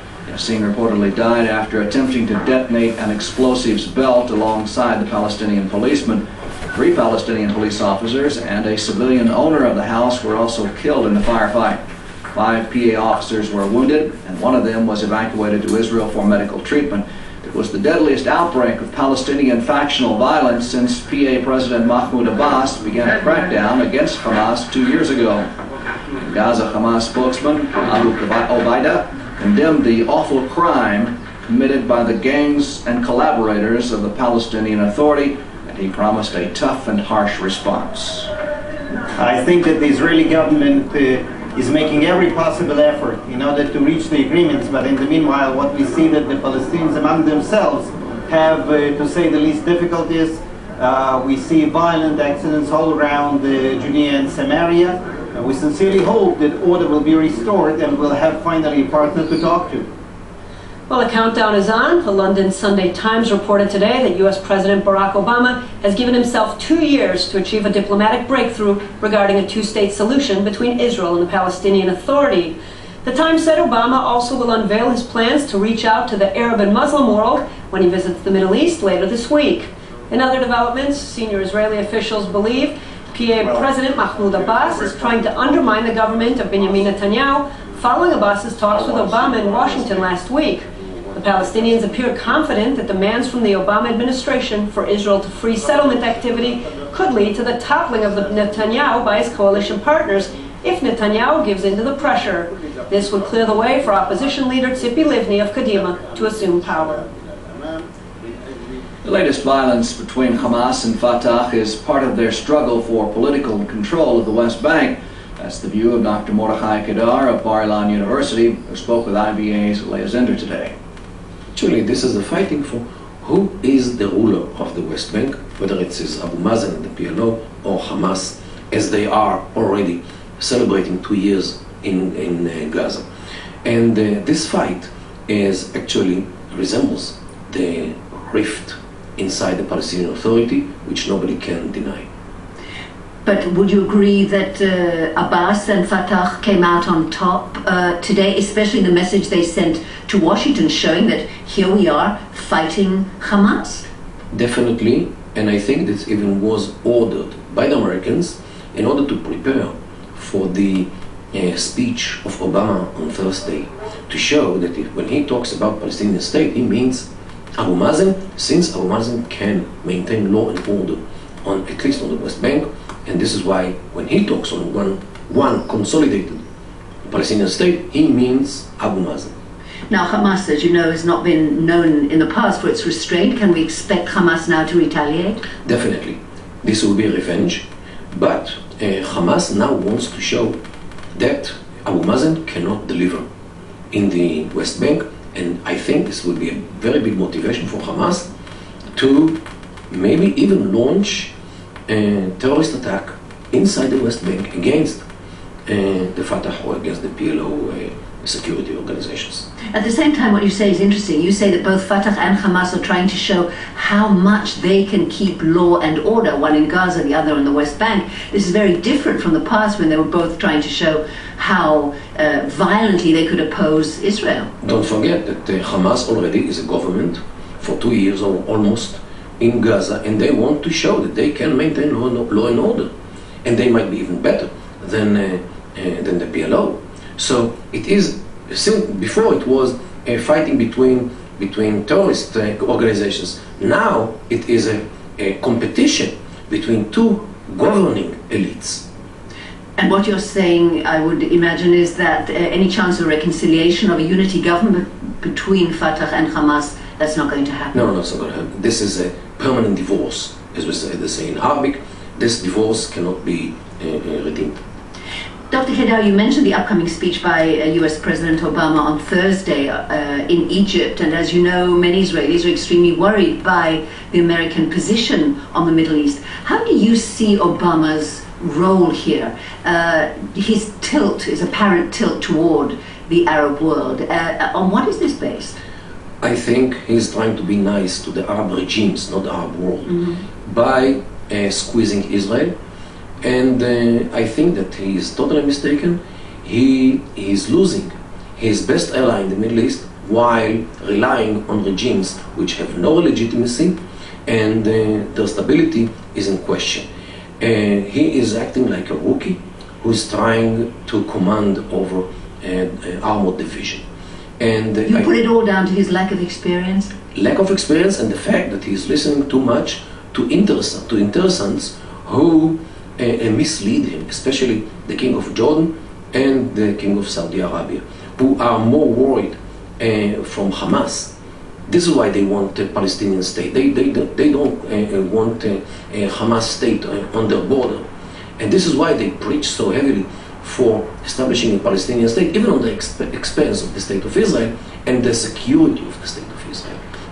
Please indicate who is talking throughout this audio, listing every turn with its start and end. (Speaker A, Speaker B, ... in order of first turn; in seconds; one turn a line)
Speaker A: 0.3-6.2
Speaker A: 6.7-11.8
Speaker A: 12.3-25.5
Speaker A: 26.2-38.3
Speaker B: 39.1-59.9
Speaker C: 60.9-107.0
Speaker B: 107.5-107.8
Speaker A: 109.0-120.7
Speaker D: 121.5-133.0
Speaker D: 133.6-142.1
Speaker E: 143.2-153.8
Speaker D: 154.3-167.1
Speaker D: 167.6-176.4
Speaker D: 177.1-179.3
Speaker E: 179.9-185.4
Speaker D: 185.6-190.6
Speaker D: 191.1-193.2
Speaker D: 193.9-198.3
Speaker D: 198.9-199.4
Speaker D: 199.9-201.3
Speaker D: 201.9-205.0
Speaker D: 205.7-209.5
Speaker E: 209.7-224.5
Speaker D: 224.6-232.9
Speaker D: 233.4-248.8
Speaker E: 249.8-257.7
Speaker D: 257.7-264.6
Speaker E: 265.5-285.5
Speaker D: 286.2-292.5
Speaker D: 293.2-303.7
Speaker D: 304.2-306.9
Speaker D: 307.4-313.8
Speaker D: 314.4-315.1
Speaker E: 314.9-316.9
Speaker D: 317.1-331.1
Speaker D: 331.7-337.8
Speaker D: 338.4-346.8